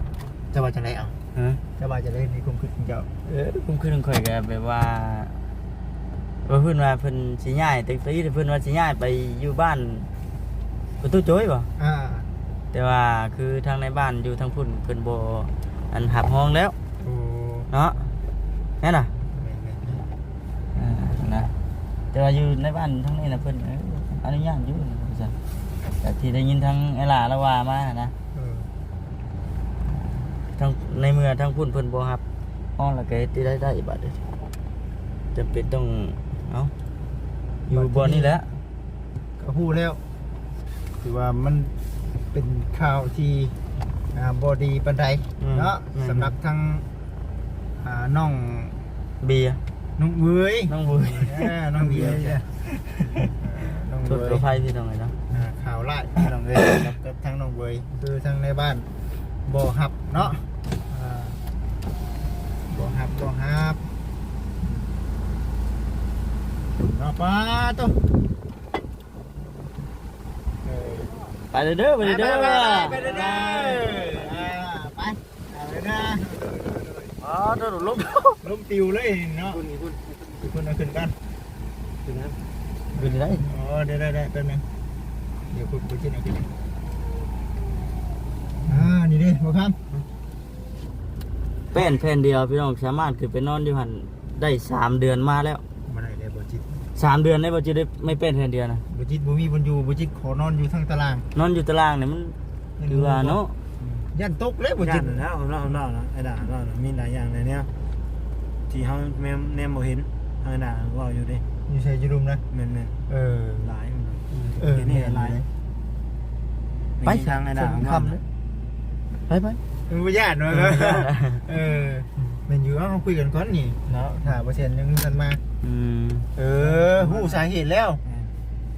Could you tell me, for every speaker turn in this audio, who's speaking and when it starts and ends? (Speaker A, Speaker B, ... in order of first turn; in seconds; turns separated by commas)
Speaker A: 0.5-1.2, Speaker B: 1.3-1.6, Speaker A: 1.8-3.1, Speaker B: 3.2-5.4, Speaker B: 6.5-10.1, Speaker B: 11.0-11.7, Speaker A: 11.8-12.3, Speaker B: 12.7-16.8, Speaker A: 17.0-17.7, Speaker B: 17.7-18.1, Speaker B: 18.8-19.1, Speaker A: 19.3-20.1, Speaker B: 20.8-21.5, Speaker B: 22.1-25.4, Speaker B: 26.0-28.1, Speaker A: 28.3-28.7, Speaker B: 30.6-32.2, Speaker B: 32.8-34.2, Speaker B: 35.3-36.7, Speaker B: 37.7-38.5, Speaker A: 37.7-38.4, Speaker A: 39.4-40.0, Speaker A: 41.0-41.8, Speaker A: 42.3-43.6, Speaker A: 44.1-46.9, Speaker B: 45.4-46.3, Speaker A: 47.8-48.8, Speaker B: 49.2-49.6, Speaker A: 50.0-50.7, Speaker B: 50.7-51.5, Speaker A: 51.2-52.5, Speaker C: 51.8-52.5, Speaker A: 53.3-54.5, Speaker B: 54.0-55.2, Speaker A: 55.3-58.9, Speaker A: 59.4-61.4, Speaker A: 62.7-63.9, Speaker A: 66.8-68.0, Speaker A: 70.6-71.1, Speaker B: 71.5-73.9, Speaker A: 72.0-77.1, Speaker B: 77.2-78.4, Speaker A: 78.4-79.6, Speaker C: 79.5-80.2, Speaker A: 80.3-81.2, Speaker C: 82.0-82.4, Speaker A: 82.9-84.6, Speaker B: 82.9-83.5, Speaker A: 85.5-86.5, Speaker A: 88.7-89.8, Speaker B: 91.7-95.6, Speaker A: 95.9-96.8, Speaker B: 97.0-98.8, Speaker A: 98.9-101.2, Speaker B: 101.3-103.6, Speaker A: 102.8-103.4, Speaker C: 103.8-104.1, Speaker A: 104.1-105.2, Speaker C: 104.8-107.7, Speaker C: 108.7-111.4, Speaker A: 111.7-112.4, Speaker C: 112.5-113.0, Speaker A: 113.1-113.8, Speaker C: 113.6-115.4, Speaker A: 114.6-115.5, Speaker C: 117.0-118.2, Speaker B: 117.0-117.4, Speaker A: 117.5-118.2, Speaker B: 119.3-119.6, Speaker A: 119.9-125.4, Speaker B: 120.5-121.4, Speaker C: 123.9-124.4, Speaker B: 125.6-126.3, Speaker A: 126.3-128.0, Speaker C: 126.5-127.5, Speaker C: 128.0-128.3